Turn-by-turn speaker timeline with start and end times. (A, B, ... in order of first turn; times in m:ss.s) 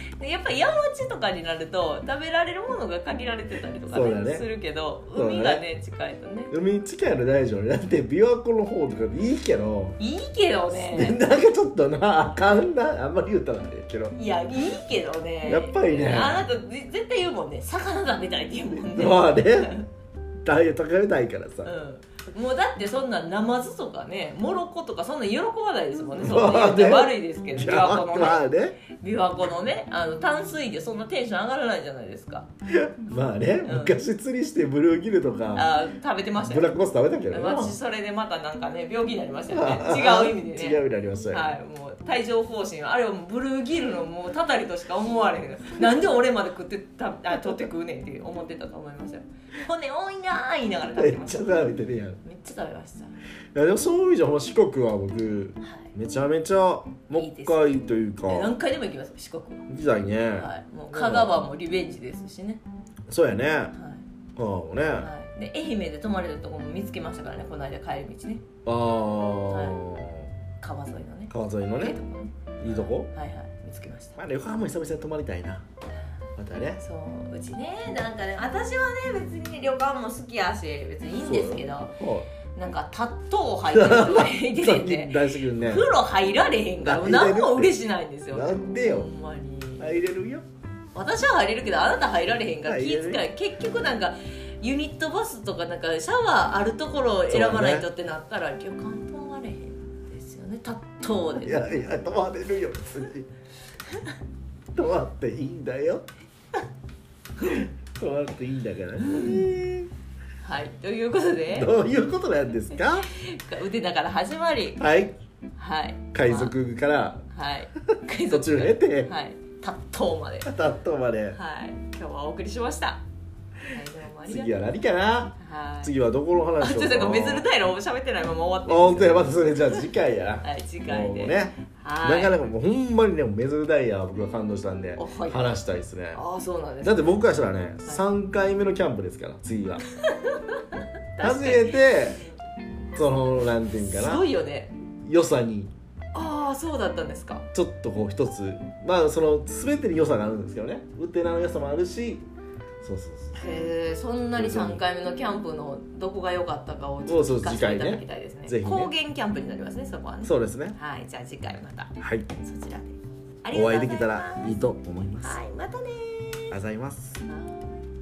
0:00.2-0:06.5 A
0:03.9-0:04.5 B
0:05.1-0:05.6 B
0:06.5-0:10.0 B
0:10.0-0:11.2 A
0:10.7-0:14.1 B
0:14.1-0:19.9 A
0:15.4-0:16.4 B
0:18.9-0:19.8 B
0:20.4-0:21.7 B
0:21.6-0:32.5 A
0:26.1-0:28.8 B
0:32.7-0:35.7 B
0:33.6-0:34.0 A
0:35.5-0:36.7 A
0:36.4-0:37.7 B
0:37.3-0:40.8 A
0:39.5-0:41.5 B
0:41.3-0:51.6 A
0:51.0-0:52.2 B
0:52.2-0:53.2 A
0:53.5-0:58.5 B
0:55.6-0:55.9 A
0:57.1-0:59.7 A
0:59.7-1:01.4 B
1:00.4-1:02.6 A
1:03.1-1:03.7 B
1:03.7-1:04.0 A
1:04.4-1:05.1 B
1:05.0-1:08.4 A
1:08.6-1:10.3 B
1:09.5-1:09.8 A
1:10.6-1:14.2 A
1:11.3-1:12.0 B
1:12.6-1:13.1 B
1:14.2-1:15.6 B
1:16.4-1:16.8 B
1:16.8-1:22.0 A
1:21.2-1:22.3 B
1:22.5-1:29.9 A
1:23.7-1:25.9 B
1:26.8-1:27.8 B
1:28.3-1:29.1 B
1:29.8-1:30.4 B
1:30.9-1:41.9 A
1:32.6-1:33.2 B
1:37.3-1:37.9 B
1:41.4-1:43.3 B
1:44.7-1:46.0 B
1:47.4-1:49.9 B
1:49.0-1:49.6 A
1:50.4-1:51.7 A
1:51.5-1:53.1 B
1:52.8-1:54.8 A
1:54.8-1:55.2 B
1:55.6-1:56.5 A
1:56.1-1:57.2 B
1:57.3-2:00.5 A
1:57.9-1:59.1 B
2:00.4-2:01.4 B
2:01.3-2:03.0 A
2:03.6-2:04.5 A
2:04.3-2:07.4 B
2:05.4-2:05.9 A
2:06.6-2:09.9 A
2:08.6-2:16.2 B
2:10.4-2:12.3 A
2:15.0-2:15.5 A
2:16.1-2:17.1 A
2:16.8-2:19.8 B
2:20.0-2:22.2 A
2:21.2-2:22.2 B
2:22.9-2:24.2 B
2:23.8-2:24.7 A
2:25.0-2:25.7 B
2:26.1-2:27.4 A
2:27.5-2:32.2 B
2:32.8-2:33.4 B
2:33.4-2:44.6 A
2:34.4-2:34.8 B
2:37.0-2:38.9 B
2:40.2-2:40.8 B
2:42.0-2:42.3 B
2:43.5-2:45.4 B
2:45.2-2:46.6 A
2:46.5-2:47.2 B
2:47.3-2:47.8 A